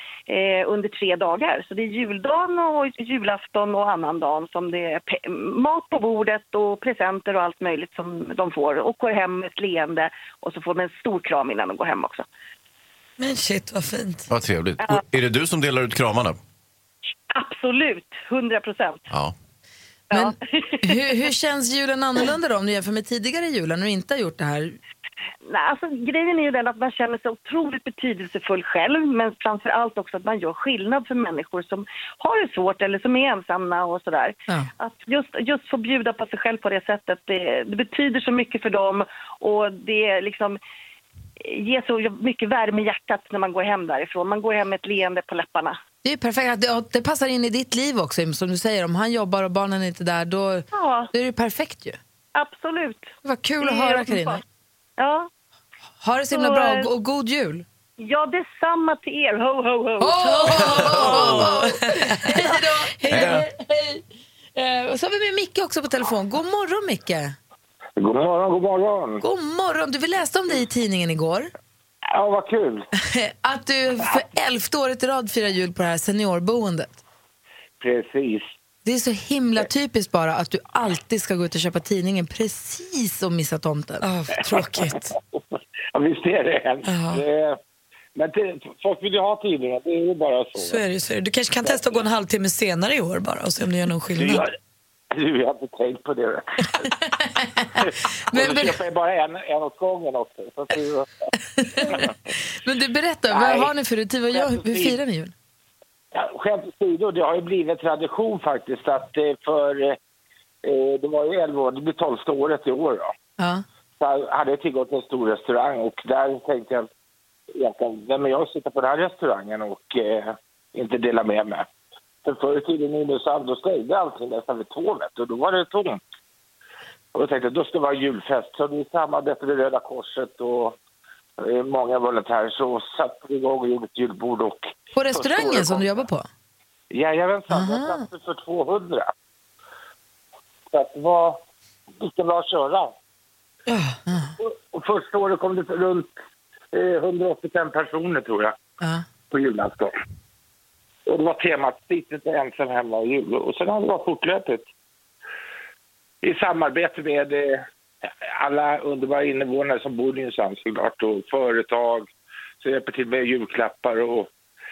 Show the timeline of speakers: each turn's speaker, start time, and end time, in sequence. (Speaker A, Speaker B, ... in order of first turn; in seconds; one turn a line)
Speaker A: 0.3-12.2
Speaker B: 13.2-14.2
Speaker C: 14.3-16.4
Speaker A: 17.3-19.1
Speaker A: 20.1-21.0
Speaker D: 20.1-24.8
Speaker A: 25.5-40.6
Speaker A: 41.4-45.8
Speaker D: 46.0-52.0
Speaker A: 50.7-51.1
Speaker A: 52.3-54.4
Speaker D: 53.2-54.4
Speaker A: 55.0-55.3
Speaker D: 56.0-57.6
Speaker A: 56.3-56.9
Speaker A: 58.0-61.7
Speaker D: 60.0-64.0
Speaker B: 61.4-62.1
Speaker C: 63.1-63.4
Speaker D: 64.5-67.3
Speaker E: 68.0-69.2
Speaker D: 69.2-71.5
Speaker E: 72.1-72.8
Speaker D: 73.0-77.0
Speaker E: 77.8-78.5
Speaker D: 78.8-84.0
Speaker B: 84.0-85.1
Speaker E: 85.9-87.6
Speaker B: 86.9-87.2
Speaker E: 88.1-90.8
Speaker B: 90.6-94.4
Speaker E: 91.6-92.0
Speaker E: 94.2-94.5
Speaker E: 95.1-96.7
Speaker D: 97.4-97.7
Speaker E: 97.8-101.1
Speaker D: 98.3-98.7
Speaker D: 101.6-102.0
Speaker D: 102.6-105.3
Speaker E: 103.3-103.7
Speaker E: 104.3-105.0
Speaker E: 106.1-110.0
Speaker E: 110.6-113.1
Speaker D: 113.4-113.6
Speaker E: 114.0-116.9
Speaker E: 117.5-121.7
Speaker E: 122.2-126.0
Speaker E: 127.1-130.8
Speaker E: 131.4-136.0
Speaker D: 134.9-136.3
Speaker E: 136.9-139.1
Speaker D: 137.5-138.1
Speaker E: 140.7-141.4
Speaker E: 142.0-142.9
Speaker D: 144.1-144.3
Speaker E: 144.4-146.1
Speaker E: 146.7-148.5
Speaker D: 148.8-149.1
Speaker E: 149.3-149.9
Speaker E: 151.1-154.7
Speaker E: 156.2-162.1
Speaker E: 162.6-164.3